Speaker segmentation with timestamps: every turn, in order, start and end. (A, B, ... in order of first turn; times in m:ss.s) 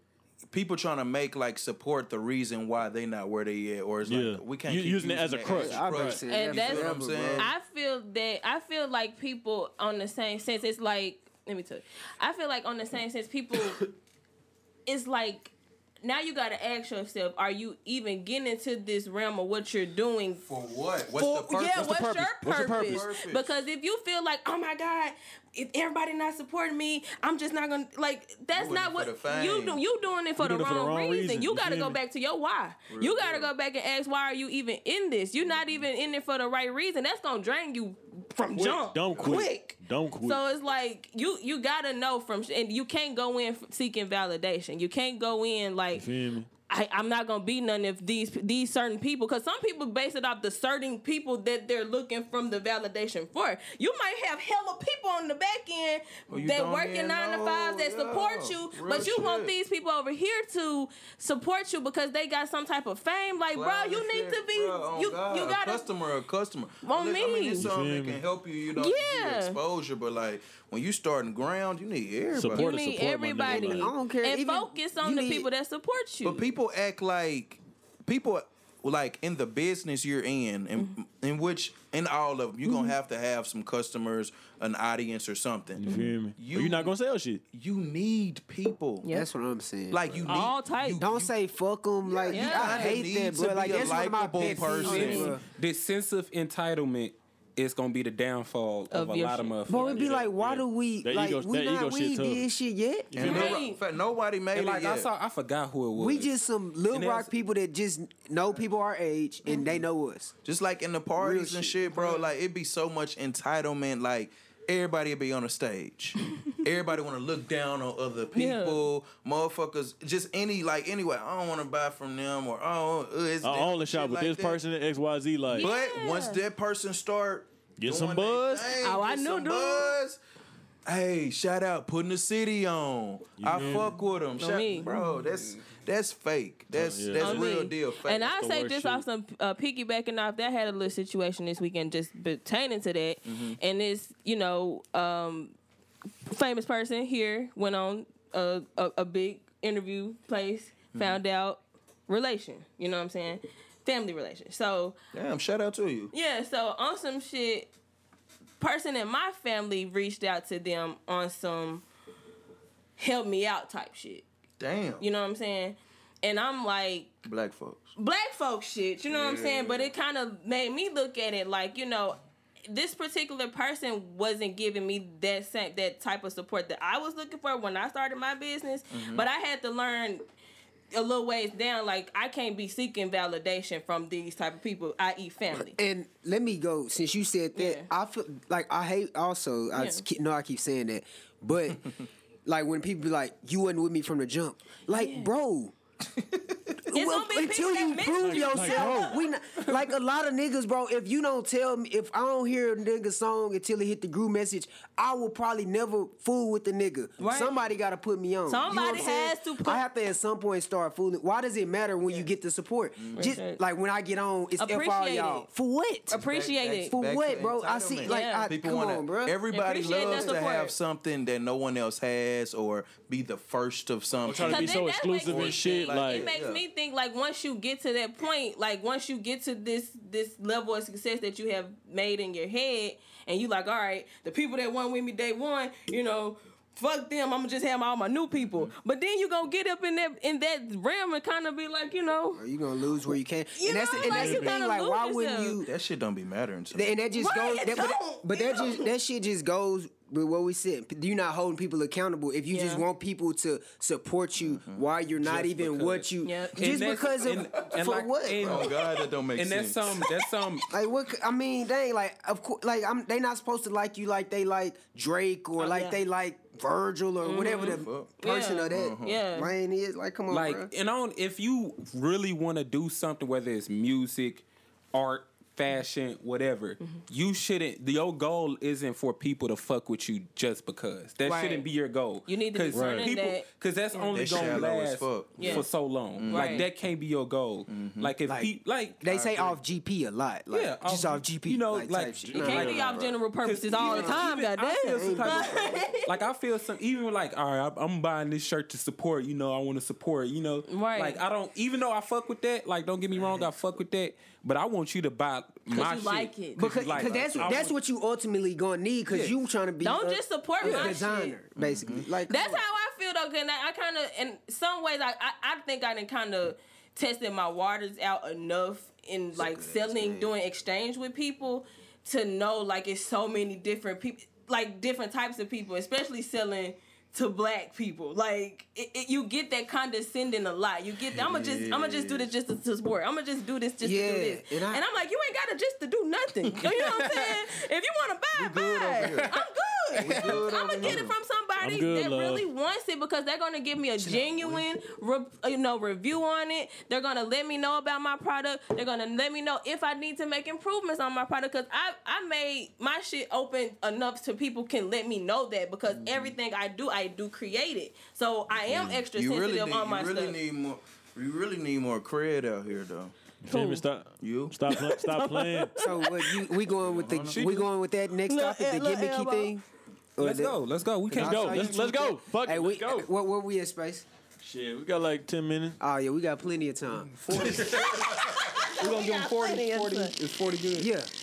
0:00.5-0:07.5 A
0:04.0-0:06.2 B
0:05.4-0:07.5 C
0:06.3-0:13.8 D
0:14.8-0:20.4 D
0:20.4-0:22.0 A
0:21.1-0:46.1 D
0:21.7-0:23.0 B
0:22.8-0:23.5 A
0:28.5-0:29.8 A
0:30.4-0:32.0 B
0:32.9-0:33.5 A
0:35.4-0:35.8 A
0:38.5-0:38.8 E
0:38.8-0:40.4 B
0:45.9-0:46.5 B
0:46.7-1:05.8 D
0:56.3-0:59.5 A
1:03.5-1:12.6 A
1:06.8-1:07.7 D
1:07.6-1:08.2 B
1:08.7-1:09.6 D
1:12.3-1:13.9 B
1:12.4-1:13.4 E
1:12.5-1:16.4 D
1:13.4-1:15.5 C
1:16.2-1:25.8 A
1:22.7-1:22.9 D
1:25.8-1:27.4 B
1:25.8-1:26.1 D
1:26.4-1:26.9 A
1:27.5-1:29.1 A
1:29.0-1:29.3 D
1:29.1-1:30.5 C
1:29.9-1:31.3 A
1:30.2-1:31.0 D
1:31.0-1:35.4 C
1:32.0-1:35.4 A
1:32.3-1:33.0 D
1:34.8-1:35.4 D
1:35.1-1:40.0 E
1:38.9-1:40.1 D
1:39.7-1:43.1 C
1:39.9-1:42.4 B
1:43.1-1:43.6 B
1:43.1-1:45.1 A
1:43.2-1:43.8 D
1:44.5-1:46.3 E
1:45.9-1:50.3 C
1:46.9-1:47.3 E
1:50.4-2:04.6 A
1:51.2-1:51.9 C
1:51.9-1:52.3 D
1:58.3-1:58.8 D
2:03.4-2:05.7 B
2:05.5-2:06.4 D
2:05.5-2:10.2 A
2:07.8-2:08.7 B
2:08.8-2:10.0 D
2:10.8-2:19.0 A
2:13.4-2:13.9 B
2:13.5-2:14.9 D
2:14.9-2:15.6 E
2:16.7-2:17.6 B
2:17.1-2:25.5 D
2:23.2-2:23.6 A
2:26.2-2:35.0 D
2:30.9-2:31.2 A
2:35.1-2:36.1 A
2:36.1-2:37.7 D
2:38.6-2:41.8 D
2:43.0-2:44.2 D
2:44.6-2:45.0 A
2:45.0-2:47.1 D
2:47.2-2:47.9 A
2:48.0-3:00.2 D
2:49.1-2:49.9 A
2:58.9-2:59.2 A
3:00.9-3:05.8 D
3:05.5-3:11.9 C
3:07.5-3:07.9 D
3:09.7-3:10.0 D
3:12.4-3:15.7 C
3:14.9-3:15.3 D
3:16.2-3:16.8 A
3:16.8-3:36.2 C
3:16.9-3:19.6 D
3:18.2-3:19.2 B
3:27.2-3:27.6 D
3:27.2-3:27.5 A
3:28.5-3:29.8 D
3:33.0-3:33.4 A
3:33.1-3:33.6 D
3:34.6-3:35.4 D
3:36.1-3:37.0 D
3:36.1-3:46.6 A
3:36.9-3:39.4 C
3:38.0-3:38.5 D
3:39.5-3:40.7 D
3:40.0-3:40.4 C
3:44.2-3:46.3 B
3:44.4-4:02.4 D
3:58.4-3:58.7 A
4:02.3-4:05.7 C
4:03.6-4:05.6 D
4:04.0-4:04.6 B
4:05.6-4:06.9 A
4:06.7-4:18.7 C
4:07.1-4:08.9 D
4:12.5-4:12.8 D
4:14.4-4:14.8 A
4:15.2-4:18.8 E
4:16.2-4:16.9 D
4:18.4-4:20.0 A
4:19.3-4:20.7 E
4:20.7-4:30.7 C
4:25.6-4:26.0 D
4:27.2-4:29.5 D
4:27.6-4:28.1 A
4:28.7-4:29.2 A
4:30.3-4:49.0 E
4:41.2-4:41.6 D
4:42.2-4:44.6 D
4:42.7-4:43.1 B
4:44.1-4:46.7 A
4:45.4-4:45.7 D
4:46.2-4:46.7 D
4:47.7-4:48.1 A
4:48.2-4:53.1 C
4:49.0-4:49.6 A
4:50.5-5:07.7 E
4:52.2-4:52.6 B
4:52.4-4:56.2 D
4:53.7-4:54.4 C
4:54.9-4:55.8 C
5:00.7-5:01.2 D
5:05.7-5:06.6 D
5:06.6-5:12.6 C
5:06.9-5:07.6 A
5:09.1-5:09.3 E
5:09.8-5:11.4 D
5:10.6-5:11.0 E
5:11.6-5:12.1 A
5:12.3-6:00.4 D
5:19.3-5:20.3 C
5:31.1-5:32.3 A
5:33.8-5:34.8 C
5:36.6-5:37.4 E
5:38.3-5:39.3 A
5:39.0-5:39.3 E
5:40.0-5:41.2 A
5:41.6-5:42.5 B
5:44.0-5:44.6 C
5:55.9-5:56.4 A
5:58.7-6:03.1 A
6:03.4-6:05.8 B
6:03.5-6:03.8 D
6:04.2-6:04.6 A
6:04.7-6:06.5 D
6:05.8-6:09.6 C
6:06.6-6:07.4 A
6:07.1-6:07.7 E
6:08.2-6:09.6 D
6:10.2-6:14.0 C
6:10.2-6:11.9 E
6:11.1-6:13.1 B
6:14.4-6:15.8 B
6:15.8-6:17.6 C
6:17.0-6:20.9 E
6:17.3-6:18.4 A
6:17.6-6:20.1 D
6:20.8-6:21.1 C